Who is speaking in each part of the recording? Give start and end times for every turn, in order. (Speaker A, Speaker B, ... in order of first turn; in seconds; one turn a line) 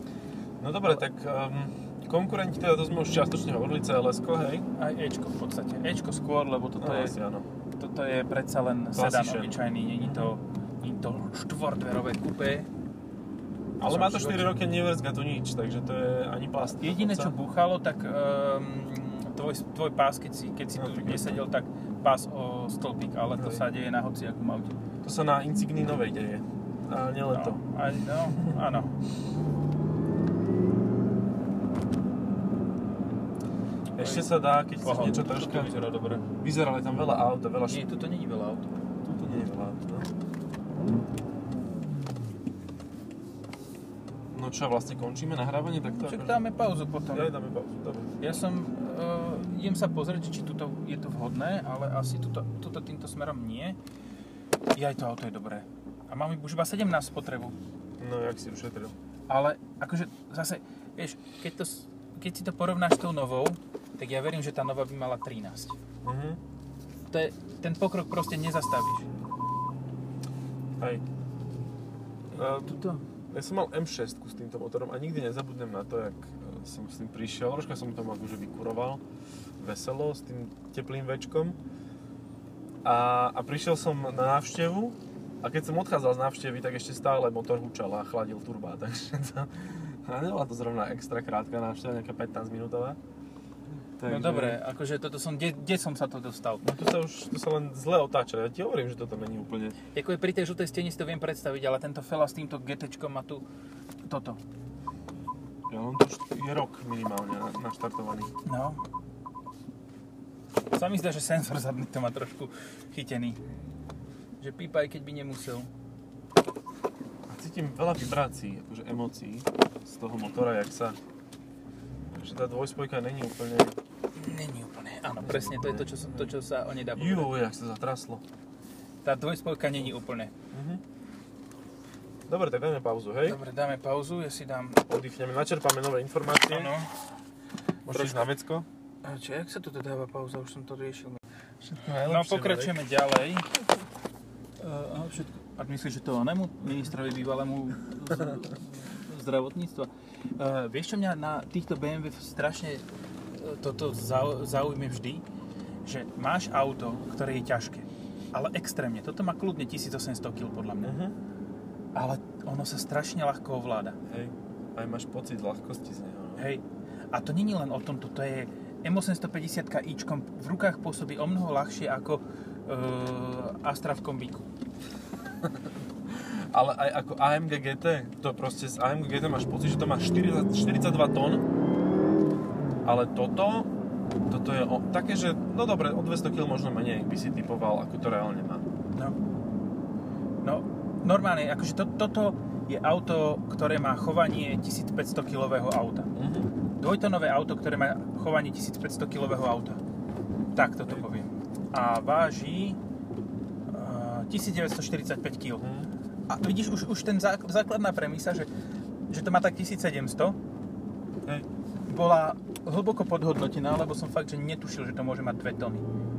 Speaker A: 0.6-4.7
Speaker B: 4.8-7.2
Speaker A: 6.8-7.4
Speaker B: 7.8-12.7
Speaker A: 8.9-10.3
Speaker A: 13.8-17.3
Speaker B: 13.8-14.5
Speaker B: 16.8-24.8
Speaker A: 20.8-21.4
Speaker A: 23.4-23.6
Speaker A: 25.0-27.6
Speaker B: 27.3-28.9
Speaker A: 33.9-35.8
Speaker B: 34.0-34.3
Speaker B: 34.8-36.2
Speaker A: 36.4-37.8
Speaker B: 37.7-38.7
Speaker A: 39.0-40.1
Speaker A: 44.3-46.4
Speaker B: 45.9-47.3
Speaker A: 47.1-48.2
Speaker B: 48.2-53.8
Speaker B: 54.7-57.5
Speaker A: 58.0-58.9
Speaker B: 59.3-65.8
Speaker A: 66.0-66.4
Speaker B: 67.1-69.1
Speaker A: 72.3-79.0
Speaker B: 72.3-73.0
Speaker A: 79.6-81.6
Speaker A: 82.8-93.0
Speaker A: 94.0-94.6
Speaker B: 94.0-96.6
Speaker A: 96.6-99.8
Speaker B: 99.9-103.4
Speaker B: 104.0-104.4
Speaker A: 105.7-108.3
Speaker B: 108.4-108.8
Speaker B: 110.7-113.4
Speaker B: 114.4-115.7
Speaker A: 117.3-121.0
Speaker A: 122.1-123.8
Speaker B: 124.1-127.3
Speaker A: 125.2-126.3
Speaker A: 126.9-128.2
Speaker B: 129.0-130.3
Speaker A: 130.5-130.8
Speaker A: 132.3-133.4
Speaker B: 133.2-134.8
Speaker A: 134.9-136.7
Speaker B: 136.5-136.9
Speaker A: 137.9-138.7
Speaker B: 137.9-138.3
Speaker B: 139.0-141.2
Speaker A: 141.6-142.8
Speaker B: 142.0-143.5
Speaker B: 144.6-155.2
Speaker B: 155.8-160.9
Speaker A: 160.8-161.1
Speaker B: 161.9-164.0
Speaker A: 164.1-166.5
Speaker B: 166.4-174.5
Speaker A: 175.4-181.5
Speaker A: 182.8-183.7
Speaker A: 184.3-188.6
Speaker B: 190.4-196.1
Speaker A: 196.1-196.5
Speaker B: 196.8-199.8
Speaker B: 200.5-202.8
Speaker B: 203.7-205.6
Speaker A: 205.6-205.9
Speaker B: 206.3-208.5
Speaker B: 209.1-210.4
Speaker B: 211.9-215.9